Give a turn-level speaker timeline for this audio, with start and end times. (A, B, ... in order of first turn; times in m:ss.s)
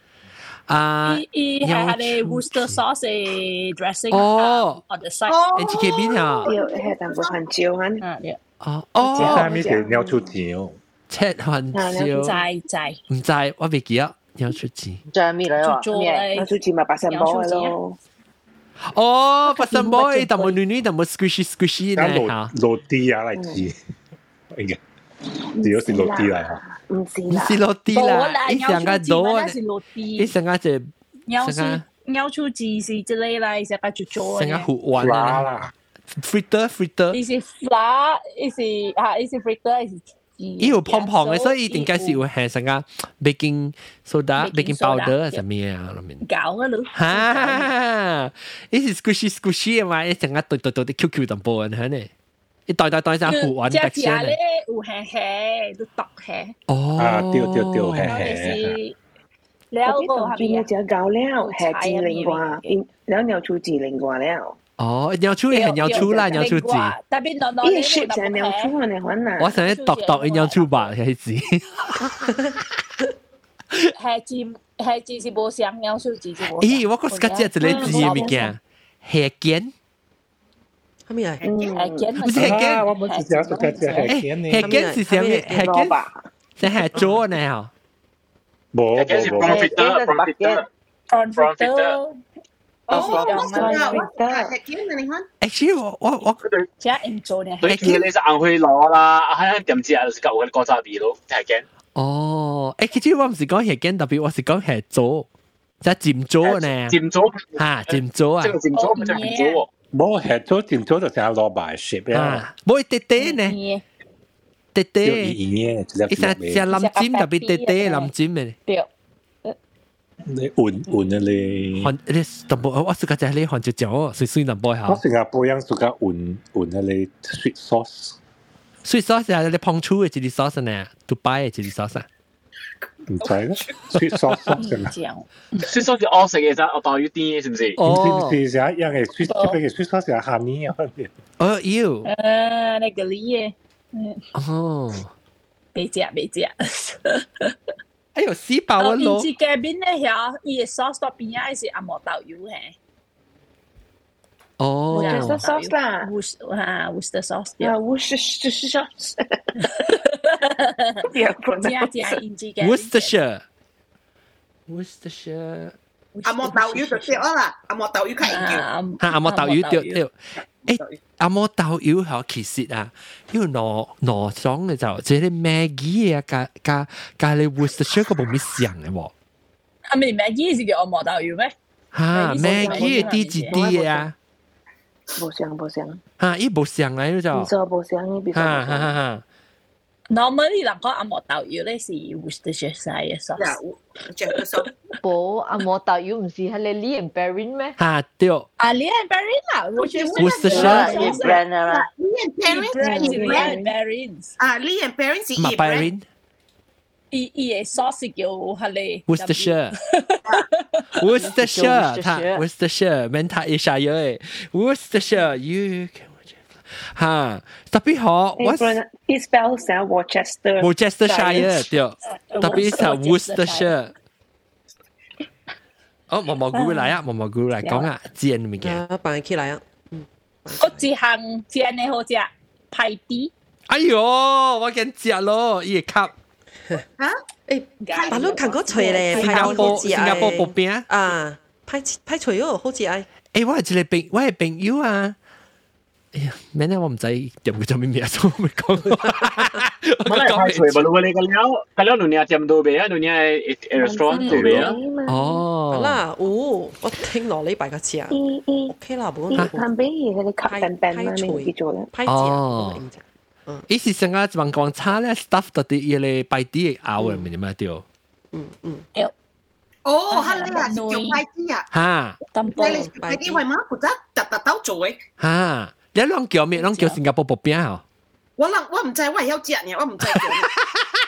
0:00.7-0:02.8 A
0:01.1-0:05.9 B
0:04.1-0:04.8 A
0:05.3-0:06.8 C
0:05.6-0:06.5 A
0:06.4-0:08.0 D
0:06.5-0:07.3 B
0:08.0-0:08.4 B
0:08.6-0:09.5 A
0:09.0-0:09.7 B
0:09.1-0:10.3 D
0:09.2-0:10.8 E
0:11.1-0:12.4 A
0:11.7-0:12.4 D
0:12.2-0:13.0 B
0:13.1-0:15.0 A
0:15.1-0:16.3 F
0:15.6-0:16.5 B
0:16.3-0:18.0 D
0:17.1-0:17.7 B
0:18.8-0:22.5 A
0:19.5-0:20.6 B
0:22.0-0:23.8 E
0:23.4-0:23.7 D
0:24.5-0:24.8 E
0:25.6-0:26.6 E
0:25.6-0:27.6 D
0:27.3-0:29.6 A
0:27.9-0:30.3 B
0:30.2-0:31.8 A
0:31.3-0:34.7 B
0:34.2-0:35.5 A
0:34.9-0:35.7 E
0:36.1-0:37.2 A
0:37.1-0:42.2 B
0:40.6-0:46.2 A
0:44.4-0:45.4 B
0:46.2-0:47.7 B
0:46.9-0:52.1 A
0:52.7-0:54.4 A
0:53.2-0:56.5 B
0:56.7-0:58.2 A
0:57.0-0:58.7 E
0:58.1-0:59.0 B
0:59.7-1:00.7 B
0:59.8-1:04.6 D
1:01.4-1:02.6 B
1:04.8-1:06.9 A
1:05.5-1:08.7 B
1:05.9-1:06.6 D
1:07.6-1:09.6 D
1:09.4-1:12.2 A
1:09.6-1:10.9 B
1:14.0-1:18.5 B
1:16.6-1:19.7 A
1:17.6-1:18.3 D
1:21.1-1:21.4 G
1:21.4-1:22.2 D
1:21.7-1:24.1 B
1:22.2-1:22.8 A
1:22.3-1:24.8 E
1:24.0-1:26.0 A
1:24.6-1:25.7 G
1:25.5-1:26.2 D
1:26.6-1:27.7 A
1:28.7-1:29.6 E
1:29.0-1:30.6 H
1:29.2-1:30.6 F
1:31.1-1:32.2 B
1:31.3-1:32.0 H
1:32.9-1:34.5 D
1:32.9-1:34.1 B
1:32.9-1:35.2 C
1:35.4-1:36.4 A
1:36.8-1:38.0 B
1:37.6-1:41.6 H
1:37.6-1:38.0 A
1:42.0-1:45.3 A
1:45.8-1:47.0 A
1:46.4-1:49.6 H
1:47.6-1:48.6 A
1:48.7-1:49.6 B
1:49.9-1:52.4 E
1:52.1-1:53.6 A
1:53.2-1:53.8 B
1:54.7-1:55.4 A
1:55.0-1:56.6 E
1:56.1-1:58.6 A
1:56.7-1:58.1 B
2:00.2-2:01.9 E
2:01.8-2:05.0 A
2:04.8-2:08.2 E
2:08.8-2:12.1 A
2:13.1-2:14.9 E
2:14.6-2:15.9 B
2:15.7-2:17.8 H
2:17.8-2:18.4 A
2:17.8-2:21.1 E
2:19.3-2:19.6 B
2:21.4-2:22.1 A
2:22.0-2:24.2 B
2:24.3-2:25.1 A
2:25.7-2:27.5 B
2:28.1-2:29.3 A
2:28.8-2:32.8 B
2:34.6-2:35.4 A
2:34.9-2:37.7 B
2:34.9-2:36.1 D
2:37.6-2:39.6 D
2:39.8-2:41.1 B
2:41.0-2:42.2 D
2:41.6-2:43.1 B
2:42.6-2:43.4 A
2:44.7-2:45.7 A
2:46.2-2:47.2 B
2:46.2-2:48.6 C
2:48.3-2:50.0 B
2:49.0-2:50.1 A
2:50.6-2:59.1 A
2:59.9-3:01.5 B
3:01.9-3:04.1 A
3:02.1-3:04.1 B
3:02.4-3:03.7 D
3:05.1-3:06.0 D
3:06.2-3:07.5 A
3:07.3-3:08.9 D
3:08.3-3:09.2 A
3:10.1-3:13.7 B
3:13.4-3:14.7 C
3:14.3-3:14.9 B
3:15.0-3:17.7 I
3:17.8-3:18.5 A
3:18.6-3:21.5 B
3:19.8-3:23.5 C
3:20.2-3:20.9 A
3:20.5-3:21.9 F
3:22.4-3:24.3 B
3:22.7-3:23.7 D
3:24.4-3:25.9 C
3:25.4-3:26.0 A
3:27.1-3:32.2 B
3:29.1-3:29.8 A
3:31.0-3:38.8 A
3:31.7-3:32.3 I
3:38.4-3:41.7 D
3:40.6-3:43.9 A
3:42.3-3:43.7 B
3:46.1-3:48.8 A
3:46.5-3:46.9 B
3:48.6-3:50.8 G
3:50.6-3:53.3 B
3:53.7-3:56.1 A
3:57.5-4:03.1 G
3:57.8-4:00.3 B
3:59.1-4:00.8 A
4:03.3-4:05.1 A
4:06.1-4:10.9 A
4:10.0-4:14.8 H
4:13.8-4:15.4 D
4:15.1-4:16.0 A
4:15.7-4:18.2 G
4:18.1-4:18.7 D
4:18.7-4:19.7 G
4:19.3-4:21.9 D
4:20.4-4:23.6 G
4:22.1-4:22.8 A
4:23.7-4:27.8 A
4:28.3-4:28.8 G
4:29.8-4:31.6 C
4:30.0-4:31.2 B
4:31.7-4:32.2 A
4:32.3-4:33.4 B
4:32.5-4:35.0 C
4:32.6-4:33.4 G
4:35.2-4:37.8 A
4:36.6-4:37.0 B
4:38.4-4:40.5 C
4:40.0-4:40.6 A